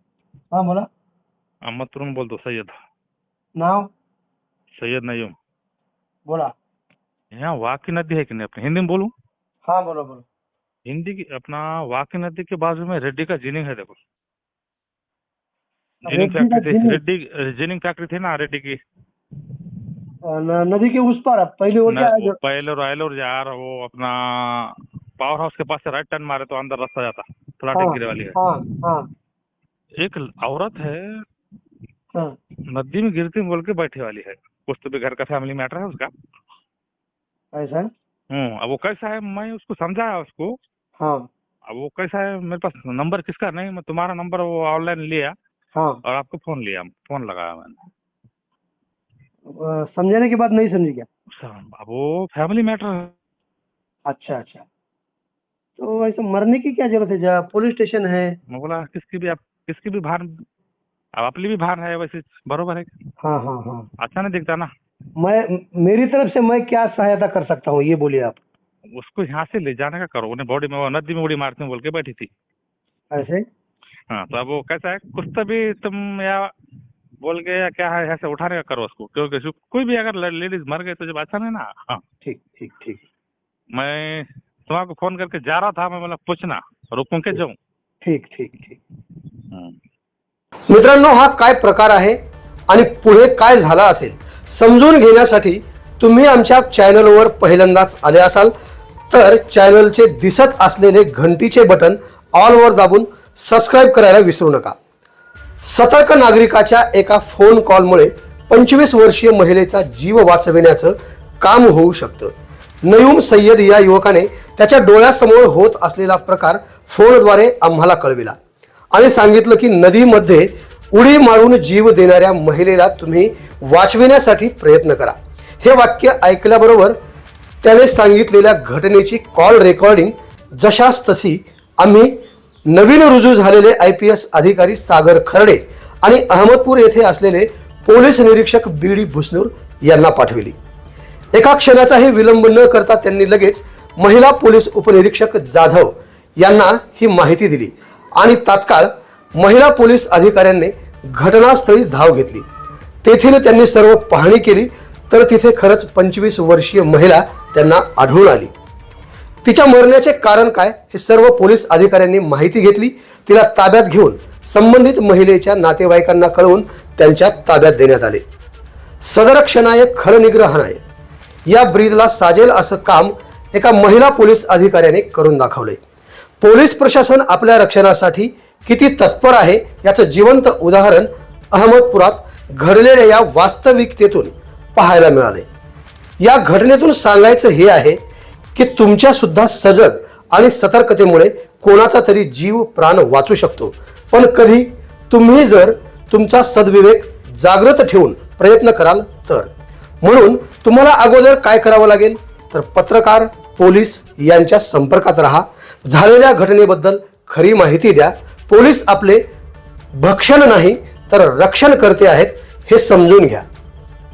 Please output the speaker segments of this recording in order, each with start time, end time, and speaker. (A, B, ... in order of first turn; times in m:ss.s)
0:00.5-0:00.9 A
0:01.7-0:02.8 B
0:03.6-0:03.9 A
0:04.8-0:05.3 B
0:06.2-0:06.5 A
0:07.3-0:09.1 B
0:09.6-0:10.2 A
0:10.9-0:14.0 B
0:16.0-0:18.8 B
0:16.1-0:17.0 A
0:20.2-0:22.4 A
0:21.9-0:28.4 B
0:27.7-0:29.1 A
0:30.0-0:31.2 B
0:32.7-0:36.1 B
0:37.5-0:37.9 A
0:38.3-0:40.6 B
0:41.0-0:41.3 A
0:41.7-0:45.3 B
0:45.7-0:46.0 A
0:46.0-0:47.9 B
0:49.5-0:51.1 A
0:51.3-0:53.1 B
0:54.0-0:54.6 A
0:55.8-0:58.4 A
0:58.5-1:00.4 B
1:01.2-1:02.9 B
1:03.2-1:03.9 A
1:04.0-1:04.7 B
1:05.2-1:08.4 A
1:09.0-1:12.3 B
1:13.1-1:13.4 A
1:14.1-1:16.5 B
1:17.2-1:22.0 B
1:22.2-1:23.0 A
1:23.7-1:27.6 B
1:28.0-1:28.8 A
1:29.5-1:29.8 B
1:30.7-1:32.2 C
1:32.7-1:38.5 C
1:39.1-1:44.8 C
1:45.6-1:52.3 C
1:52.8-1:58.4 C
1:58.9-2:07.0 C
2:07.6-2:12.1 C
2:12.7-2:20.6 C
2:21.3-2:32.5 C
2:33.0-2:38.5 C
2:39.4-2:48.2 C
2:49.0-2:50.8 C
2:51.5-2:55.8 C
2:56.4-3:05.5 C
3:06.2-3:08.0 C
3:08.6-3:19.5 C
3:20.0-3:29.2 C
3:29.9-3:33.4 C